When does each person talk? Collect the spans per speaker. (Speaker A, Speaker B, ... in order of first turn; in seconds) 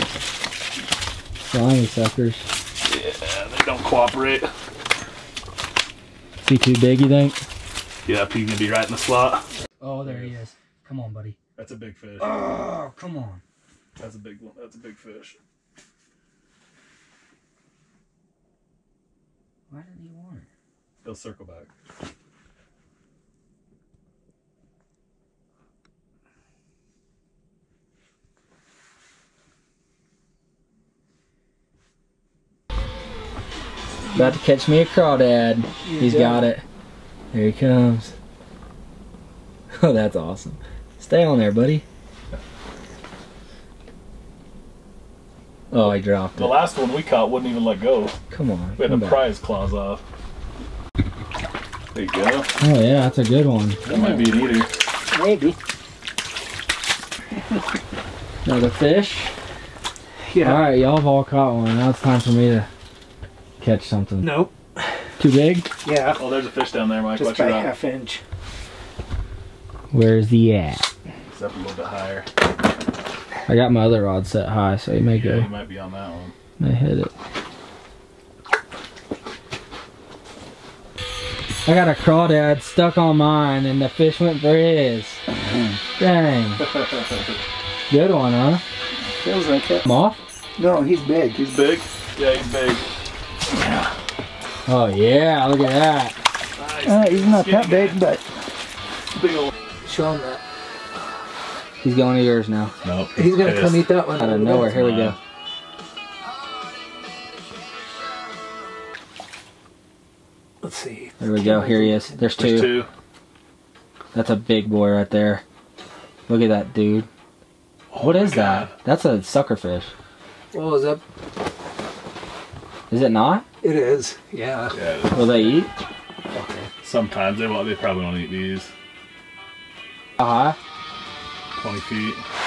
Speaker A: 1.4-2.5, 6.4-7.4, 9.8-11.4, 12.2-13.4, 19.7-20.4, 34.1-36.6, 37.3-38.1, 39.8-41.8, 45.7-46.6, 48.3-49.2, 52.6-54.1, 58.4-59.3, 60.4-62.7, 63.6-64.4, 65.2-65.7, 69.9-70.8, 73.5-75.5, 76.6-77.1, 81.6-85.2, 86.0-86.8, 87.9-88.6, 89.8-90.2, 94.7-96.1, 101.8-102.8, 104.1-105.2, 111.2-112.8, 114.1-115.4, 116.3-117.1, 118.0-119.9, 122.9-123.5, 125.1-125.7, 130.2-130.6
Speaker B: 2.9-4.5, 8.0-9.4, 10.0-10.3, 11.6-12.3, 14.0-15.4, 21.0-21.7, 46.4-48.1, 48.8-50.0, 51.9-52.5, 53.9-54.7, 66.1-67.7, 71.3-72.2, 75.1-76.3, 89.2-89.8, 91.3-92.8, 96.5-98.0, 99.1-99.5, 102.8-104.0, 104.7-105.2, 112.3-112.9, 117.9-118.7, 124.7-125.5, 126.5-128.7, 131.5-132.2
Speaker C: 35.8-36.5, 55.1-55.6, 57.3-57.8, 60.3-60.6, 64.2-64.5, 65.8-66.3, 67.1-68.2, 89.5-89.8, 90.5-91.4, 93.5-93.9, 96.8-98.2, 99.8-100.4, 103.1-104.8, 110.6-112.1, 120.5-121.0, 123.6-124.7